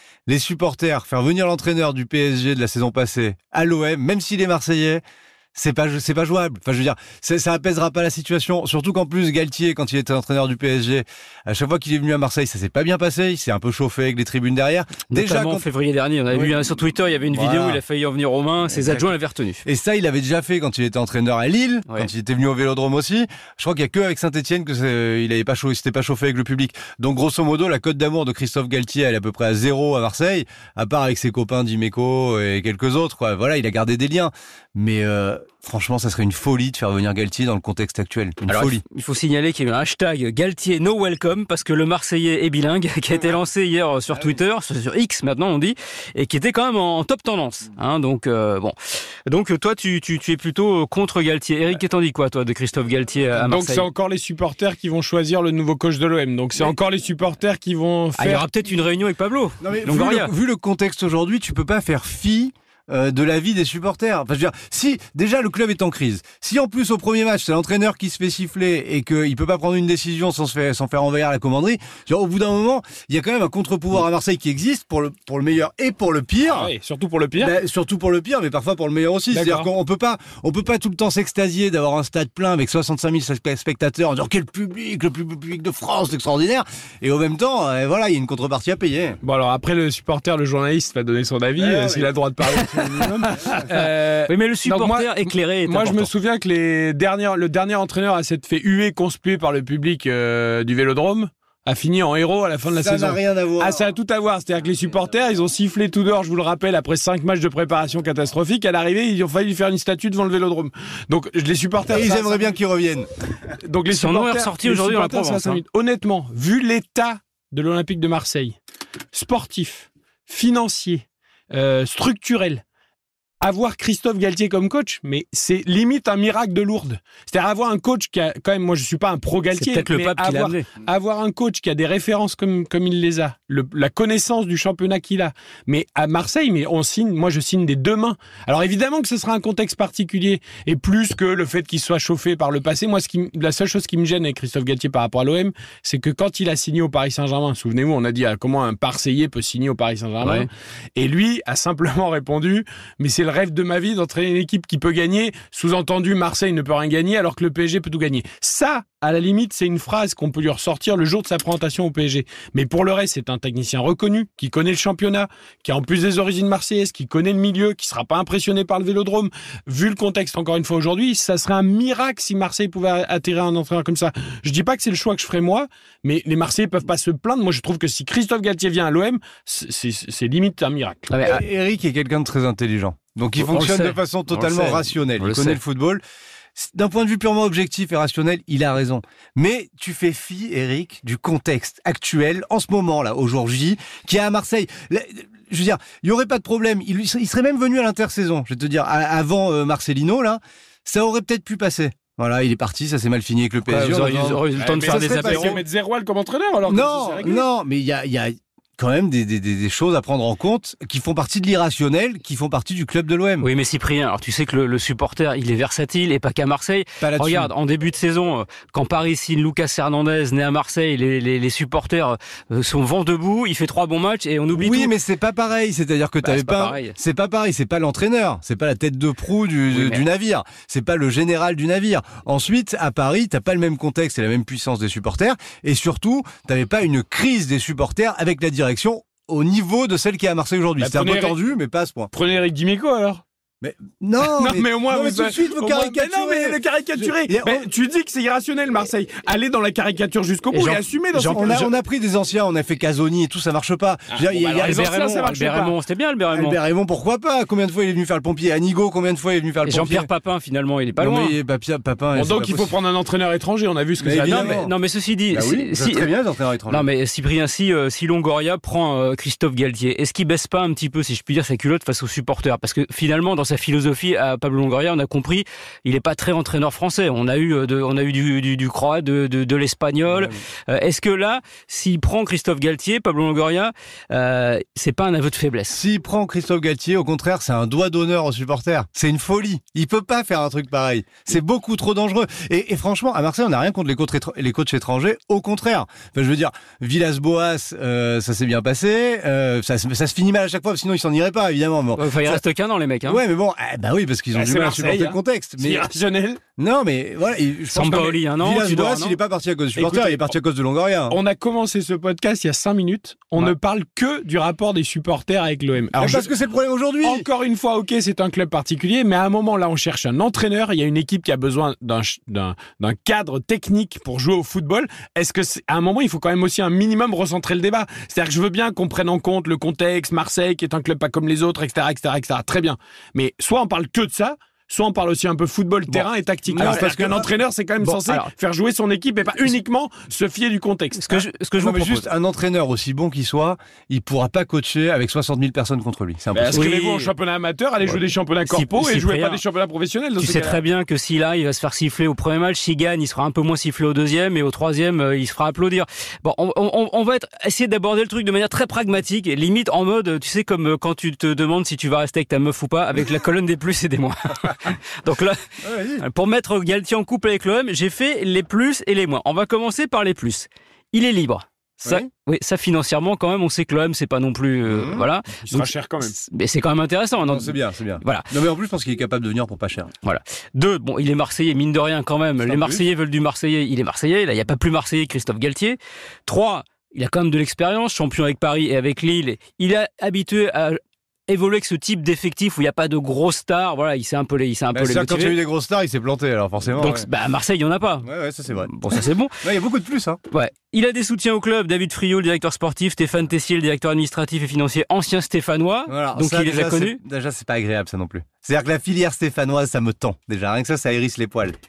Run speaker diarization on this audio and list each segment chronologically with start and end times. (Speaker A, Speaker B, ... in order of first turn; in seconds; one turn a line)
Speaker A: 0.3-5.0
Speaker A: 5.5-15.7
Speaker B: 15.1-19.6
Speaker A: 16.3-16.6
Speaker A: 17.3-17.8
Speaker A: 18.7-19.1
Speaker A: 19.6-38.8
Speaker B: 38.4-48.7
Speaker B: 49.3-53.9
Speaker C: 53.3-58.5
Speaker B: 58.2-60.3
Speaker A: 59.6-76.7
Speaker C: 76.5-77.5
Speaker A: 77.4-89.2
Speaker C: 79.3-79.7
Speaker C: 89.2-112.6
Speaker A: 91.6-92.1
Speaker B: 93.7-96.1
Speaker A: 102.7-103.8
Speaker A: 111.9-113.1
Speaker C: 113.6-118.5
Speaker B: 113.9-115.6
Speaker C: 119.1-122.6
Speaker C: 123.4-181.1
Speaker B: 129.5-130.7
Speaker B: 150.2-150.5
Speaker B: 181.1-181.4
Speaker A: 181.2-186.0
Speaker B: 183.4-185.6
Speaker A: 186.5-205.6
Speaker B: 203.7-205.6
Speaker C: 204.6-207.4
Speaker A: 206.7-213.5
Speaker B: 213.4-224.9
Speaker A: 217.0-217.5
Speaker A: 224.5-242.1
Speaker B: 226.2-226.9
Speaker B: 229.7-230.1
Speaker C: 240.8-241.4
Speaker C: 242.1-243.2
Speaker A: 243.6-247.6
Speaker C: 244.2-251.7
Speaker B: 250.5-250.8
Speaker A: 251.1-255.3
Speaker C: 254.1-255.8
Speaker B: 254.6-256.6
Speaker A: 256.3-260.1
Speaker B: 259.6-261.4
Speaker A: 261.0-262.7
Speaker C: 262.1-264.6
Speaker A: 264.0-264.7
Speaker B: 264.2-266.1
Speaker A: 265.3-266.9
Speaker B: 266.7-285.8
Speaker A: 280.1-280.4
Speaker A: 285.7-302.4
Speaker B: 301.9-303.2
Speaker A: 303.1-305.9
Speaker C: 304.3-306.4
Speaker A: 306.6-311.2
Speaker B: 307.7-309.2
Speaker C: 309.8-310.4
Speaker C: 311.1-316.3
Speaker A: 315.9-317.3
Speaker C: 317.0-341.1
Speaker B: 335.9-337.1
Speaker A: 336.6-337.3
Speaker B: 337.8-338.3
Speaker B: 340.9-342.1
Speaker A: 341.1-346.6
Speaker C: 346.3-350.6
Speaker B: 346.5-347.1
Speaker B: 348.4-349.4
Speaker B: 350.2-378.3
Speaker A: 365.6-366.0
Speaker A: 374.7-375.1
Speaker C: 375.4-376.1
Speaker A: 377.2-379.9
Speaker B: 380.0-395.4
Speaker C: 382.4-382.8
Speaker A: 394.7-397.1
Speaker B: 396.8-398.1
Speaker A: 398.0-400.2
Speaker B: 398.6-399.4
Speaker B: 400.3-407.0
Speaker A: 405.9-411.6